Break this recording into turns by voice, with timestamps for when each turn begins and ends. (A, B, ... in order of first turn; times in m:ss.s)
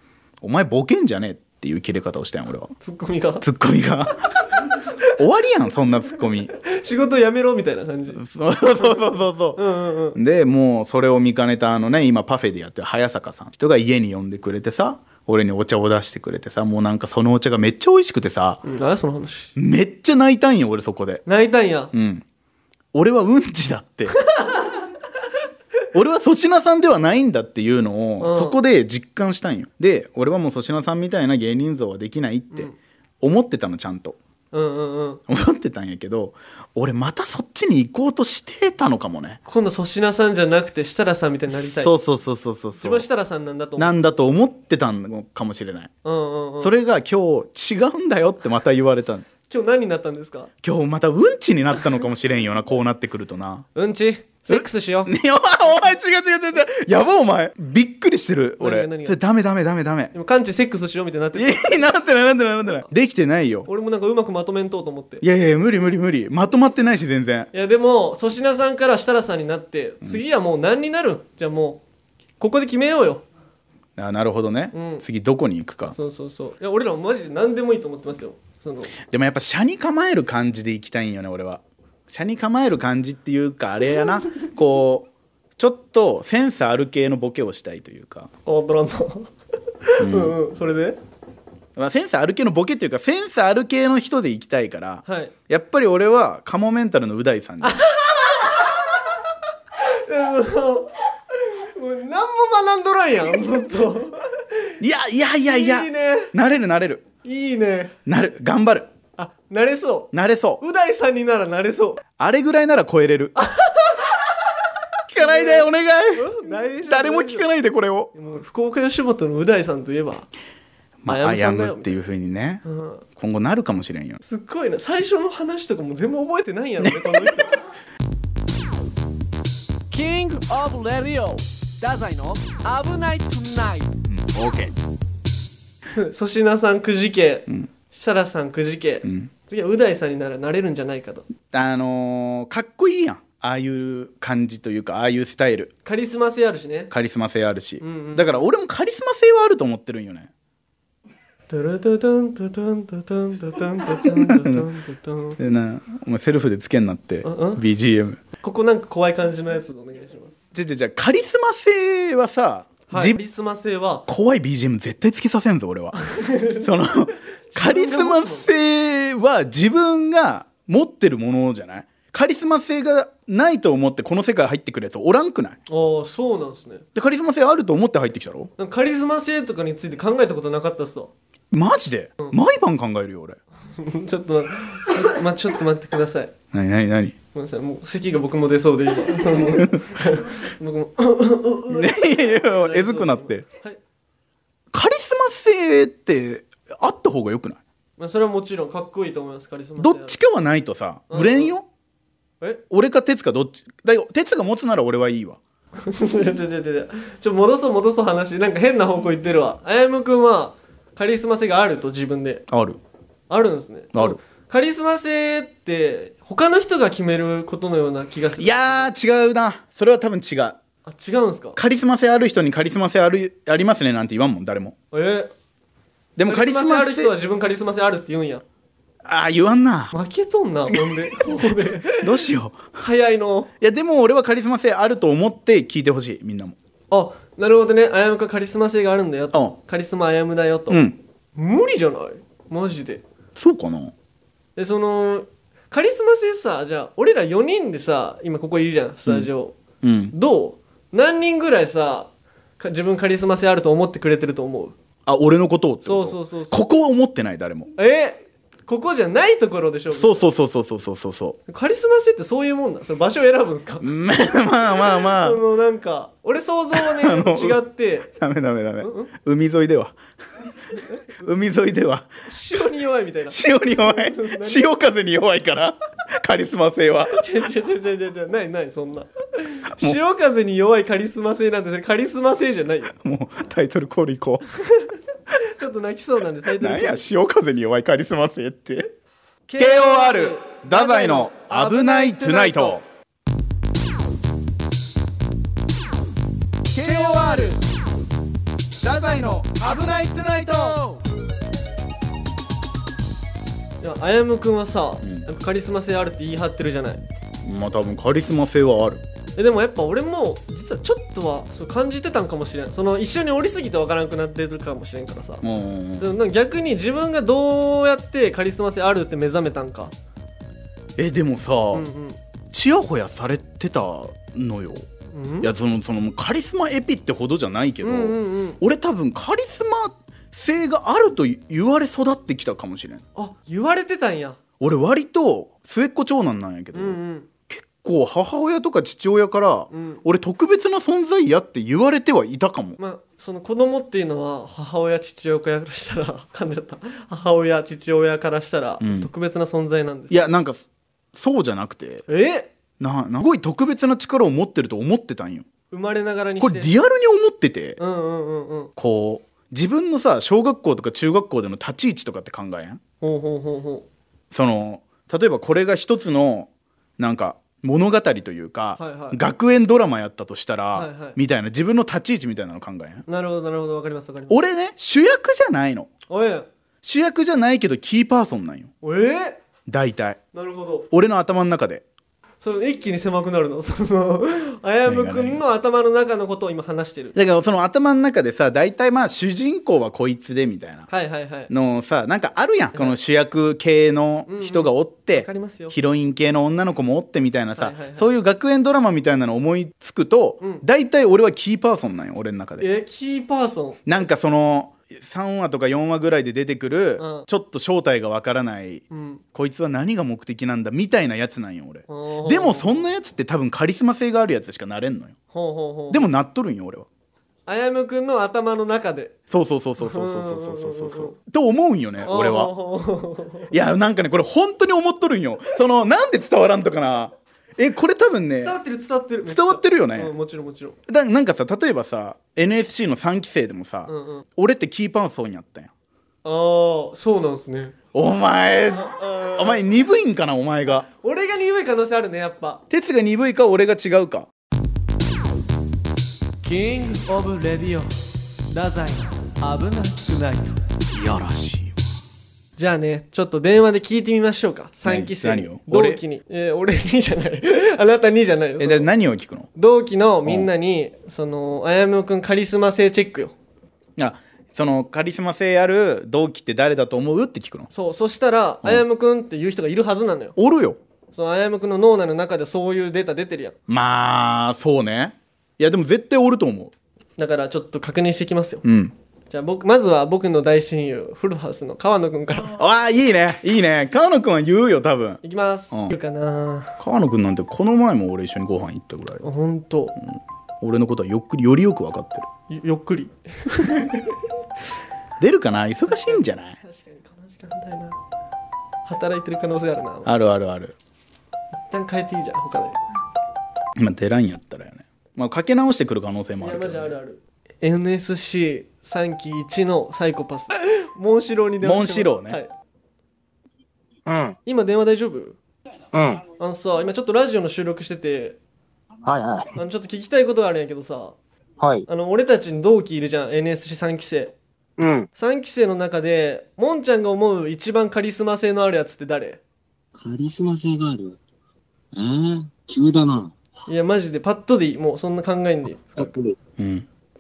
0:00.4-0:02.7 A
0:02.8-0:03.5 B
0:03.4-0:04.3 A
0:05.2-0:06.5 A
0:06.6-0:08.2 B
0:08.1-0:09.6 A
0:08.8-0:09.0 B
0:09.6-0:10.2 B
0:10.1-0:18.6 A
0:18.6-0:19.5 B
0:19.6-0:21.2 A
0:21.3-0:21.9 B
0:21.9-0:22.2 A
0:22.9-0:24.2 A
0:24.4-0:24.8 B
0:25.9-0:34.2 A
0:28.2-0:28.6 B
0:34.5-0:35.2 B
0:35.3-0:39.4 A
0:39.5-0:41.9 B
0:41.5-0:43.1 A
0:42.8-0:43.9 B
0:43.8-0:45.9 A
0:46.0-0:46.7 B
0:46.6-0:49.3 A
0:49.5-0:50.5 B
0:50.6-0:53.7 A
0:53.8-0:55.1 B
0:54.5-1:00.1 A
0:58.6-0:59.2 B
1:00.1-1:01.8 B
1:01.4-1:03.7 A
1:03.7-1:05.2 B
1:05.2-1:07.5 A
1:07.5-1:11.8 B
1:12.4-1:13.2 B
1:14.0-1:16.0 A
1:14.7-1:15.0 B
1:15.9-1:18.9 B
1:19.0-1:28.3 A
1:28.5-1:29.3 B
1:29.8-1:31.0 B
1:30.0-1:30.4 A
1:31.8-1:37.8 A
1:35.1-1:35.3 B
1:37.6-1:39.0 B
1:39.8-1:44.7 B
1:44.8-1:47.0 A
1:45.5-1:46.3 B
1:47.2-1:48.0 B
1:48.1-1:48.9 A
1:49.2-1:52.0 B
1:50.1-1:50.6 A
1:52.2-1:53.4 A
1:53.4-1:54.2 B
1:55.1-1:58.1 A
1:55.2-1:57.5 B
1:58.1-2:00.3 B
2:01.0-2:02.6 A
2:01.1-2:02.0 B
2:02.6-2:03.0 B
2:03.2-2:04.2 A
2:04.2-2:07.7 B
2:06.8-2:07.4 A
2:09.9-2:13.9 B
2:14.1-2:14.7 A
2:15.9-2:21.3 B
2:19.0-2:19.3 A
2:21.5-2:25.7 A
2:25.8-2:26.9 B
2:26.9-2:30.3 A
2:27.8-2:28.4 B
2:31.5-2:35.4 B
2:34.0-2:34.7 A
2:35.4-2:38.2 A
2:37.2-2:37.6 B
2:38.4-2:40.3 B
2:40.5-2:43.2 A
2:42.9-2:44.1 B
2:44.1-2:46.0 A
2:46.0-2:46.7 B
2:46.6-2:55.6 A
2:47.5-2:48.5 B
2:55.7-2:56.8 B
2:57.0-2:58.5 A
2:58.6-3:01.1 B
3:01.5-3:03.4 A
3:03.8-3:06.3 B
3:06.5-3:07.2 A
3:07.3-3:13.8 B
3:09.4-3:09.8 A
3:11.7-3:13.4 A
3:14.7-3:17.6 A
3:18.0-3:20.2 B
3:19.8-3:21.7 A
3:21.1-3:21.5 B
3:22.7-3:25.4 A
3:25.8-3:32.4 B
3:32.5-3:32.8 A
3:33.3-3:38.9 B
3:33.9-3:34.2 A
3:38.4-3:40.6 A
3:40.9-3:41.6 B
3:41.6-3:44.8 A
3:44.9-3:45.3 B
3:46.2-3:47.1 A
3:46.3-3:48.4 B
3:49.0-3:49.9 A
3:49.9-3:52.3 B
3:50.7-3:52.7 A
3:52.8-3:53.5 B
3:53.6-3:56.6 A
3:56.9-4:00.8 B
4:00.7-4:01.0 A
4:01.4-4:03.0 B
4:03.4-4:03.9 A
4:04.6-4:09.6 B
4:09.8-4:10.2 A
4:10.1-4:14.8 B
4:15.1-4:17.7 A
4:15.8-4:16.6 B
4:17.8-4:20.2 B
4:19.9-4:21.4 A
4:21.5-4:23.9 B
4:23.8-4:25.4 A
4:25.0-4:28.1 B
4:26.7-4:27.6 A
4:28.2-4:30.0 A
4:28.8-4:29.1 B
4:31.2-4:32.6 A
4:32.3-4:34.7 B
4:33.3-4:37.2 A
4:37.1-4:42.9 B
4:43.0-4:44.4 A
4:44.7-4:47.0 B
4:46.6-4:48.9 A
4:49.5-4:52.8 B
4:49.6-4:52.8 A
4:56.7-4:57.6 A
4:58.8-5:01.0 A
5:03.8-5:07.0 B
5:05.0-5:05.3 A
5:07.4-5:09.0 A
5:09.4-5:15.4 B
5:15.4-5:16.1 A
5:16.0-5:19.9 B
5:21.0-5:21.8 A
5:21.7-5:22.2 B
5:22.5-5:24.9 A
5:25.1-5:25.5 B
5:25.4-5:33.0 A
5:27.8-5:28.6 B
5:33.2-5:34.4 B
5:34.6-5:42.8 A
5:36.7-5:37.3 B
5:39.7-5:40.0 B
5:42.8-5:50.3 B
5:48.8-5:49.1 A
5:50.1-5:52.0 A
5:52.1-5:52.5 B
5:52.8-5:55.5 A
5:55.7-5:56.7 B
5:56.4-5:57.8 A
5:57.8-5:58.7 B
5:58.8-6:02.8 A
6:03.0-6:03.9 B
6:04.3-6:13.0 A
6:08.8-6:09.2 B
6:10.7-6:11.2 B
6:13.1-6:14.4 B
6:14.3-6:15.9 A
6:16.1-6:16.5 B
6:16.8-6:18.7 A
6:18.8-6:19.4 B
6:19.7-6:20.2 A
6:20.3-6:20.9 B
6:20.9-6:21.8 A
6:22.4-6:27.2 B
6:24.9-6:25.4 A
6:27.2-6:30.9 A
6:30.9-6:31.5 B
6:31.5-6:42.7 A
6:34.3-6:35.8 B
6:37.6-6:38.1 B
6:42.6-6:43.8 B
6:43.9-6:55.2 A
6:47.0-6:47.3 B
6:48.9-6:49.2 B
6:51.9-6:52.8 B
6:55.3-6:56.1 B
6:55.9-6:56.9 A
6:57.5-6:59.1 B
6:59.3-7:02.5 A
6:59.8-7:01.2 B
7:02.0-7:03.5 B
7:03.5-7:08.6 A
7:08.4-7:10.8 B
7:09.2-7:10.1 A
7:10.9-7:15.7 A
7:13.9-7:14.2 B
7:16.2-7:17.8 B
7:17.9-7:20.9 A
7:18.7-7:19.6 B
7:20.8-7:22.6 B
7:22.7-7:24.3 A
7:26.4-7:27.9 B
7:28.5-7:30.6 B
7:30.9-7:31.8 A
7:32.6-7:38.9 B
7:34.8-7:36.0 A
7:38.6-7:39.5 A
7:39.6-7:43.3 B
7:44.0-7:47.7 A
7:47.7-7:50.4 B
7:50.4-7:50.8 A
7:51.1-7:53.6 B
7:53.7-7:56.7 A
7:57.2-7:58.6 B
7:58.6-7:58.9 A
7:59.3-8:02.6 B
8:02.5-8:05.9 A
8:05.2-8:06.8 B
8:06.8-8:09.2 A
8:09.2-8:10.0 B
8:10.0-8:12.3 A
8:12.5-8:14.2 B
8:15.2-8:16.6 A
8:15.9-8:18.0 B
8:18.9-8:20.1 B
8:20.1-8:20.8 A
8:21.7-8:22.8 B
8:23.8-8:27.0 A
8:26.4-8:32.5 B
8:31.6-8:32.4 A
8:34.1-8:34.4 C
8:34.5-8:35.4 B
8:35.9-8:36.2 C
8:36.4-8:38.4 B
8:39.1-8:39.6 C
8:39.6-8:41.2 B
8:41.6-8:41.9 C
8:41.9-8:44.4 B
8:44.8-8:45.1 C
8:45.2-8:49.4 B
8:50.0-8:51.2 C
8:51.9-8:53.3 C
8:53.7-8:56.1 B
8:56.0-8:56.4 C
8:56.6-8:56.9 A